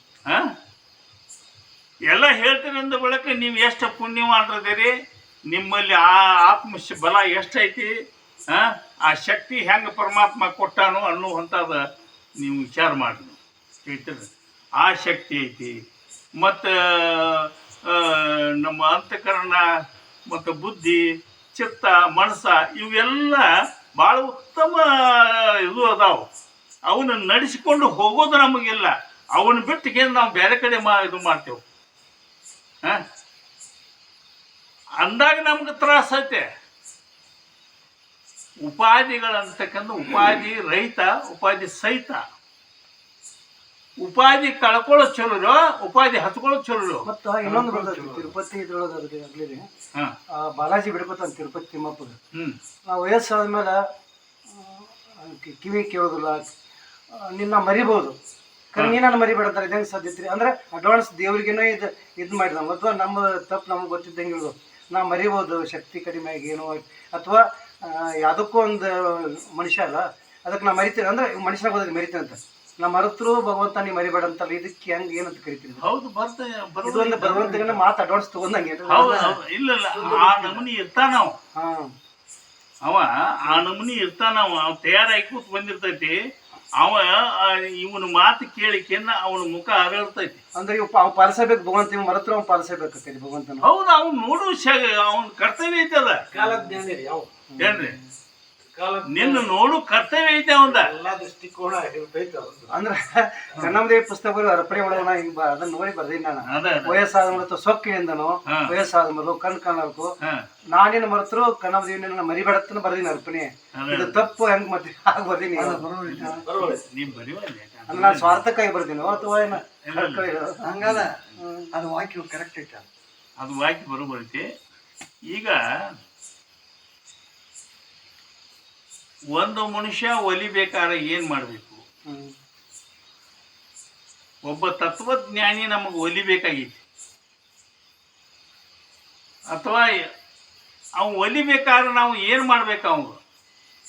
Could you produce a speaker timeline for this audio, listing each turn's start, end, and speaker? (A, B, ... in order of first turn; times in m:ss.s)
0:02.1-0:04.9 A
0:05.5-0:07.9 A
0:08.5-0:11.8 A
0:12.4-0:14.3 A
0:14.8-0:15.7 A
0:16.4-0:19.6 A
0:20.3-0:21.0 A
0:21.5-0:23.4 A
0:24.0-0:26.2 A
0:26.9-0:31.6 A
0:35.0-0:36.4 A
0:38.6-0:42.2 A
0:44.0-0:47.0 A
0:47.0-0:49.6 B
0:47.4-0:48.3 C
0:50.3-0:52.1 B
0:52.9-0:53.8 B
0:54.5-0:56.4 B
0:57.2-0:58.2 B
0:58.7-1:15.8 B
1:15.8-1:17.8 A
1:16.8-1:19.3 B
1:18.9-1:21.3 A
1:20.0-1:20.4 B
1:20.1-1:20.5 C
1:21.6-1:21.9 B
1:22.8-1:26.1 A
1:26.8-1:30.4 A
1:30.6-1:33.6 B
1:33.6-1:36.2 A
1:36.3-1:37.3 D
1:36.3-1:36.8 B
1:37.5-1:38.1 B
1:37.6-1:37.9 A
1:38.6-1:39.5 D
1:39.1-1:40.9 A
1:40.6-1:42.8 D
1:42.7-1:50.1 B
1:46.5-1:47.1 A
1:50.7-1:56.4 B
1:53.8-1:54.2 A
1:55.6-1:56.4 C
1:56.1-1:58.4 A
1:56.2-1:57.0 D
1:57.9-2:00.7 B
1:59.8-2:00.2 A
2:00.6-2:01.2 C
2:01.4-2:01.7 B
2:01.7-2:02.9 C
2:03.4-2:04.4 A
2:05.3-2:05.6 A
2:09.4-2:11.8 A
2:14.4-2:16.8 A
2:19.5-2:19.8 A
2:21.0-2:23.2 A